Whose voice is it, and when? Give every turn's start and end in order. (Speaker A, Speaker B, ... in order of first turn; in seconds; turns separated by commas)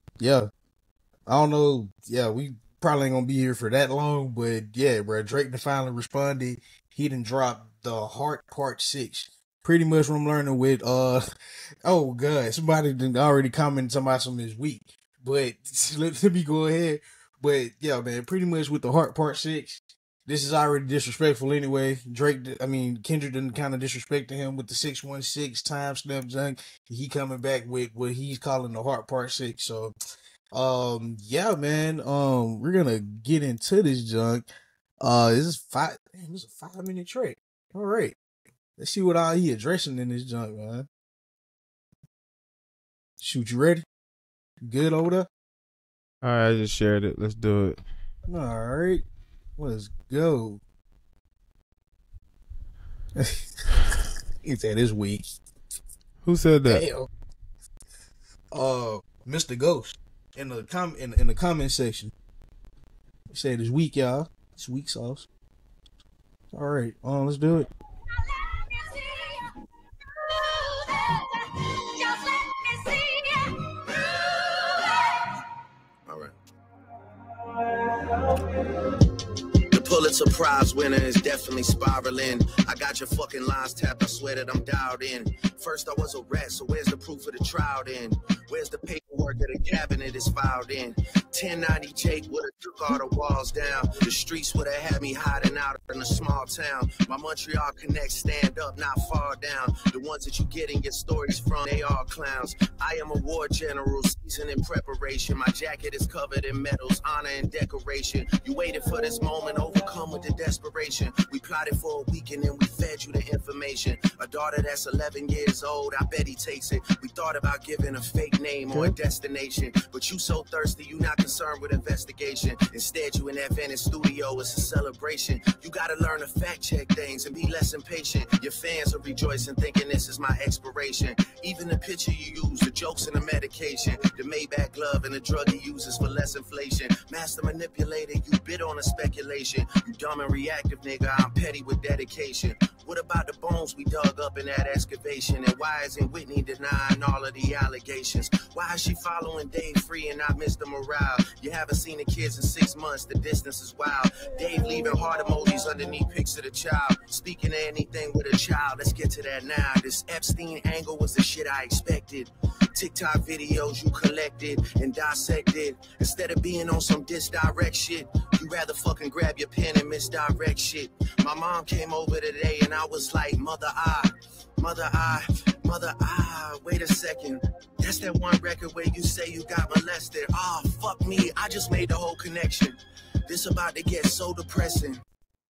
Speaker A: 0.2-0.5, Speaker A: 1.3-11.2, Speaker A: 11.8-29.9, Speaker A: 30.5-34.5, Speaker A: 35.0-38.2, Speaker A: 38.8-40.9, Speaker A: 43.2-43.9, Speaker A: 44.6-45.3, Speaker B: 46.2-47.8, Speaker A: 48.3-49.0, Speaker A: 49.6-50.6, Speaker A: 54.4-55.4, Speaker B: 56.2-56.9, Speaker A: 56.7-57.1, Speaker A: 58.5-62.1, Speaker A: 63.3-65.3, Speaker A: 66.5-67.7, Speaker C: 68.2-69.4, Speaker C: 70.3-75.3, Speaker C: 76.1-76.3, Speaker C: 79.7-182.8, Speaker A: 118.7-119.0, Speaker C: 183.3-185.0